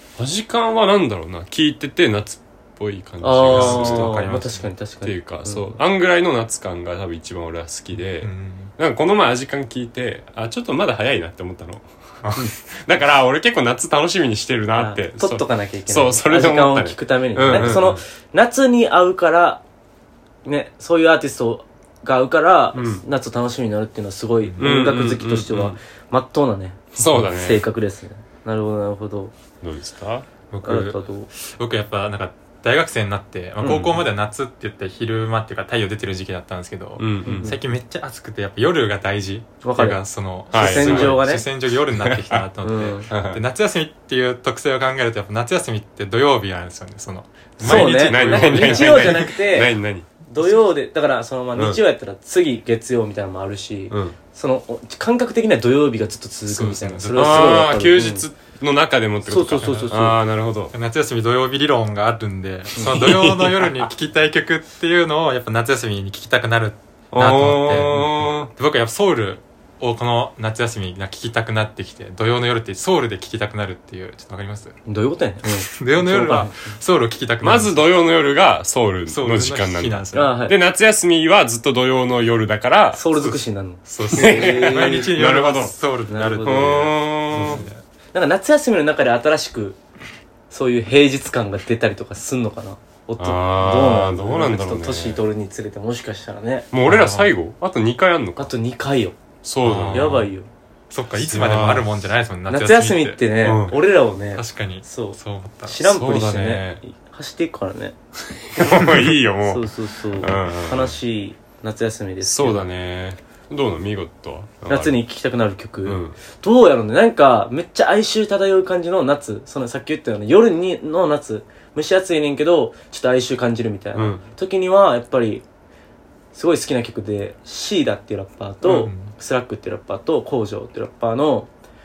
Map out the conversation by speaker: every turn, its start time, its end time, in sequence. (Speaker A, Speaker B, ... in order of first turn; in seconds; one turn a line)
Speaker A: 0.2-4.4
Speaker B: 3.2-5.8
Speaker C: 3.5-4.7
Speaker A: 5.0-11.9
Speaker C: 8.2-8.7
Speaker C: 12.2-12.5
Speaker A: 12.8-18.0
Speaker B: 14.7-19.6
Speaker C: 17.5-17.8
Speaker B: 20.4-29.3
Speaker A: 22.7-23.0
Speaker C: 24.4-24.7
Speaker A: 24.6-25.8
Speaker A: 26.9-27.6
Speaker A: 29.6-30.3
Speaker C: 30.5-49.3
Speaker B: 30.6-31.3
Speaker B: 33.6-34.0
Speaker A: 37.0-37.5
Speaker B: 37.2-37.6
Speaker B: 39.6-40.0
Speaker A: 40.5-41.2
Speaker B: 40.5-41.4
Speaker A: 41.9-42.5
Speaker B: 42.6-43.1
Speaker A: 43.1-43.4
Speaker B: 47.6-49.7
Speaker A: 47.6-50.1
Speaker B: 50.2-58.2
Speaker A: 51.5-51.8
Speaker A: 53.9-54.2
Speaker A: 56.5-60.7
Speaker B: 59.3-60.2
Speaker C: 59.6-59.9
Speaker C: 60.7-74.8
Speaker A: 62.8-63.9
Speaker A: 67.1-68.5
Speaker B: 74.8-76.7
Speaker C: 75.7-77.9
Speaker A: 77.4-83.0
Speaker C: 79.1-80.3
Speaker B: 80.1-80.5
Speaker B: 82.9-85.1
Speaker C: 83.1-87.8
Speaker A: 84.1-85.8
Speaker B: 86.1-89.8
Speaker A: 86.4-87.7
Speaker B: 90.5-96.7
Speaker A: 93.2-95.2
Speaker A: 96.7-98.5
Speaker C: 96.8-97.3
Speaker B: 98.4-99.2
Speaker A: 99.4-100.2
Speaker C: 99.6-100.3
Speaker B: 99.9-100.5
Speaker C: 100.9-103.2
Speaker A: 101.2-101.9
Speaker B: 102.5-107.9
Speaker A: 103.4-103.7
Speaker C: 104.3-105.8
Speaker A: 105.8-106.8
Speaker A: 108.4-111.0
Speaker B: 108.7-112.6
Speaker A: 112.2-115.0
Speaker B: 114.7-125.4
Speaker A: 115.8-116.2
Speaker A: 123.9-124.2
Speaker B: 126.3-131.5
Speaker C: 128.6-129.1